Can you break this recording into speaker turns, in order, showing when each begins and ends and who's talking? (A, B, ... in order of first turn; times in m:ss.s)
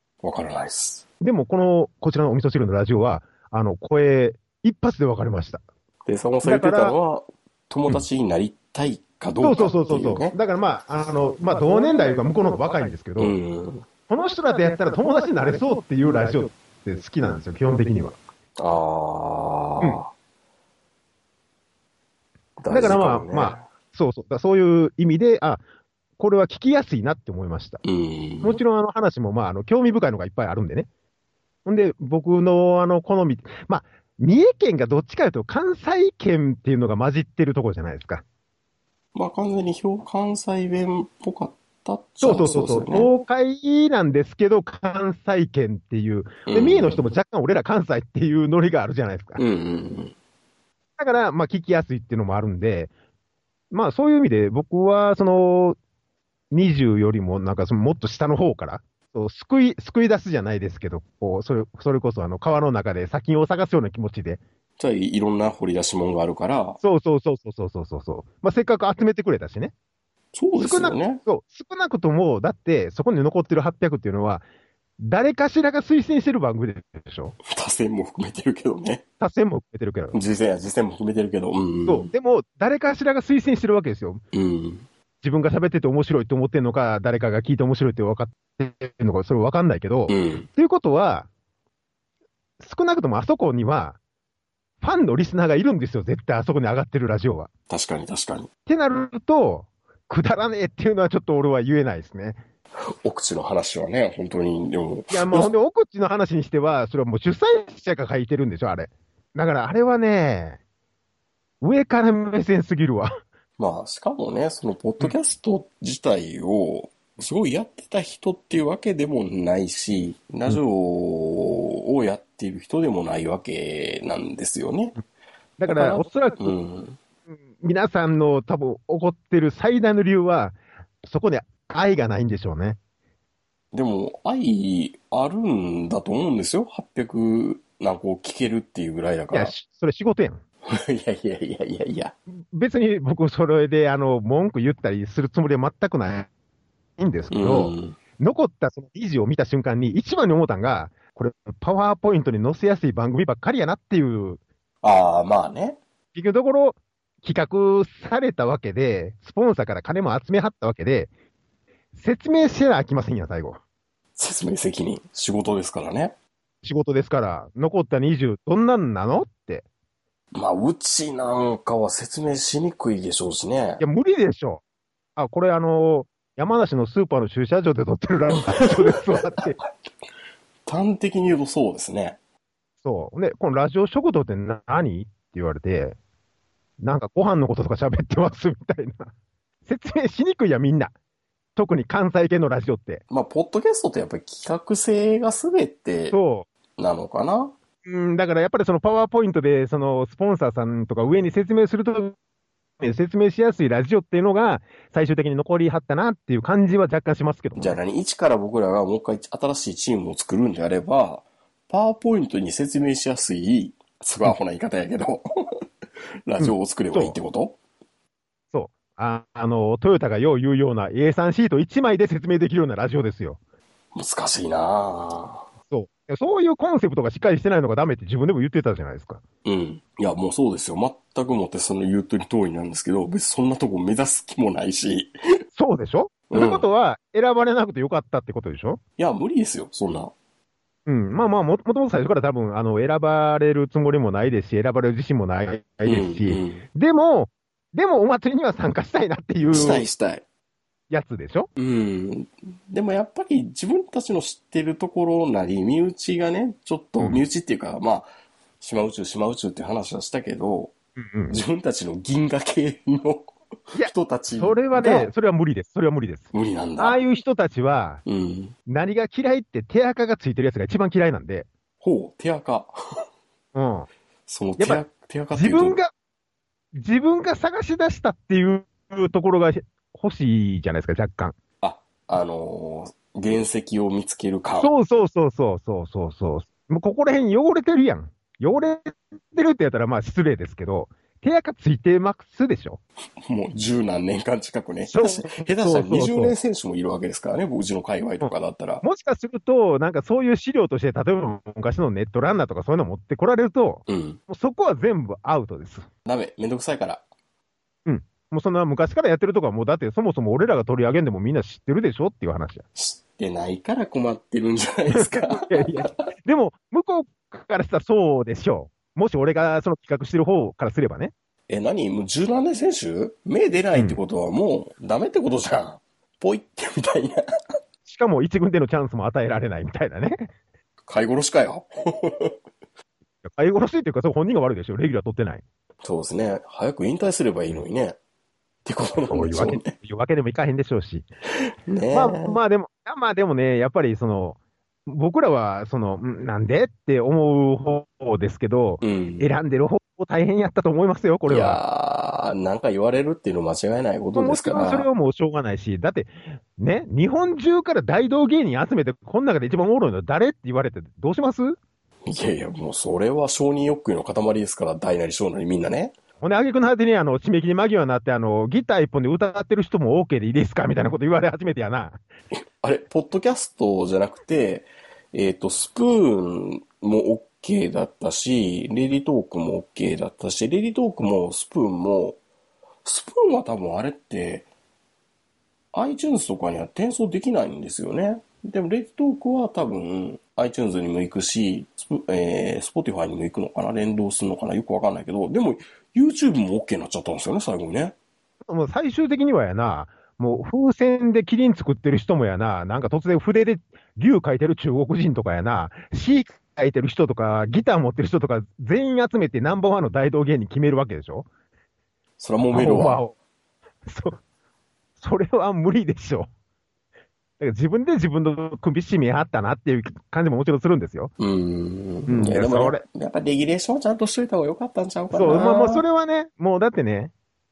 0:00.2-0:01.0 A
0:01.2-0:05.6 B
0:06.1-0:10.4 A
0:06.4-0:07.0 B
0:09.4-0:13.4 B
0:13.2-0:13.9 A
0:14.1-0:18.2 B
0:18.6-0:20.1 A
0:22.6-0:23.6 A
0:22.7-0:25.6 B
0:26.2-0:27.8 B
0:27.8-0:28.6 A
0:28.4-0:30.9 B
0:31.7-0:38.2 B
0:39.2-0:43.1 A
0:42.2-0:49.4 B
0:46.5-0:47.0 A
0:49.4-0:50.1 A
0:51.0-0:52.9 B
0:53.7-0:55.8 B
0:56.5-1:04.4 B
1:04.8-1:06.8 A
1:06.8-1:09.7 B
1:10.3-1:11.2 A
1:10.5-1:14.4 B
1:15.0-1:17.4 B
1:17.4-1:19.0 A
1:19.2-1:20.2 B
1:20.1-1:22.1 A
1:21.9-1:24.2 B
1:24.3-1:24.9 A
1:25.2-1:31.3 B
1:30.1-1:30.5 A
1:32.6-1:34.0 B
1:34.8-1:37.5 B
1:37.7-1:38.5 A
1:38.7-1:42.4 B
1:43.0-1:45.5 A
1:45.1-1:50.6 B
1:51.6-1:53.1 B
1:53.6-2:05.0 A
2:05.6-2:06.5 B
2:05.7-2:07.0 A
2:07.3-2:12.8 B
2:13.7-2:19.5 A
2:19.3-2:20.4 B
2:20.7-2:22.1 A
2:22.5-2:26.3 B
2:27.0-2:34.4 B
2:27.3-2:28.0 A
2:34.8-2:35.8 A
2:36.1-2:41.1 B
2:41.9-2:43.6 B
2:44.2-2:46.1 A
2:46.6-2:49.6 B
2:50.4-2:53.8 A
2:53.8-2:54.6 B
2:55.2-2:59.6 B
2:58.4-2:59.4 A
3:00.7-3:02.2 A
3:02.8-3:06.0 B
3:06.8-3:09.1 B
3:09.7-3:10.9 B
3:11.6-3:13.0 B
3:13.1-3:16.2 A
3:16.1-3:16.5 B
3:16.8-3:17.5 A
3:17.8-3:22.2 B
3:22.8-3:27.8 B
3:27.6-3:35.2 A
3:36.3-3:37.6 A
3:36.4-3:37.2 B
3:38.5-3:43.4 B
3:43.9-3:45.5 A
3:45.7-3:49.2 B
3:49.4-3:55.1 A
3:55.6-3:58.8 B
3:56.3-3:56.6 A
3:59.0-4:00.1 A
4:00.9-4:09.9 B
4:05.8-4:06.7 A
4:09.5-4:10.2 A
4:10.9-4:11.5 B
4:11.6-4:20.7 A
4:21.0-4:21.4 B
4:21.3-4:25.1 A
4:23.7-4:28.0 B
4:26.3-4:27.0 A
4:28.0-4:28.6 A
4:28.7-4:31.5 B
4:31.8-4:32.7 A
4:33.5-4:33.9 B
4:34.3-4:35.8 A
4:34.6-4:34.8 B
4:35.3-4:35.9 B
4:36.7-4:41.4 B
4:41.6-4:44.7 A
4:44.6-4:52.8 B
4:53.2-4:58.8 A
4:54.9-4:56.4 B
4:58.2-5:05.9 B
5:03.9-5:04.2 A
5:06.0-5:07.0 A
5:07.9-5:12.6 B
5:12.8-5:16.0 A
5:14.9-5:21.1 B
5:21.5-5:27.2 A
5:23.7-5:24.0 B
5:27.8-5:30.3 B
5:30.9-5:32.4 A
5:33.2-5:35.4 B
5:35.8-5:38.0 A
5:38.6-5:39.8 A
5:39.1-5:41.1 B
5:41.7-5:42.4 A
5:41.9-5:51.6 B
5:48.8-5:49.3 A
5:51.3-5:54.9 A
5:54.2-6:01.6 B
6:02.1-6:05.9 A
6:06.2-6:12.0 B
6:12.6-6:22.2 A
6:22.8-6:24.5 A
6:25.7-6:38.0 A
6:38.5-6:51.3 B
6:52.2-6:53.0 A
6:52.5-6:53.1 B
6:53.9-6:54.2 B
6:55.0-6:56.3 B
6:57.4-7:01.1 B
7:01.2-7:05.8 A
7:02.1-7:02.8 B
7:05.1-7:07.1 B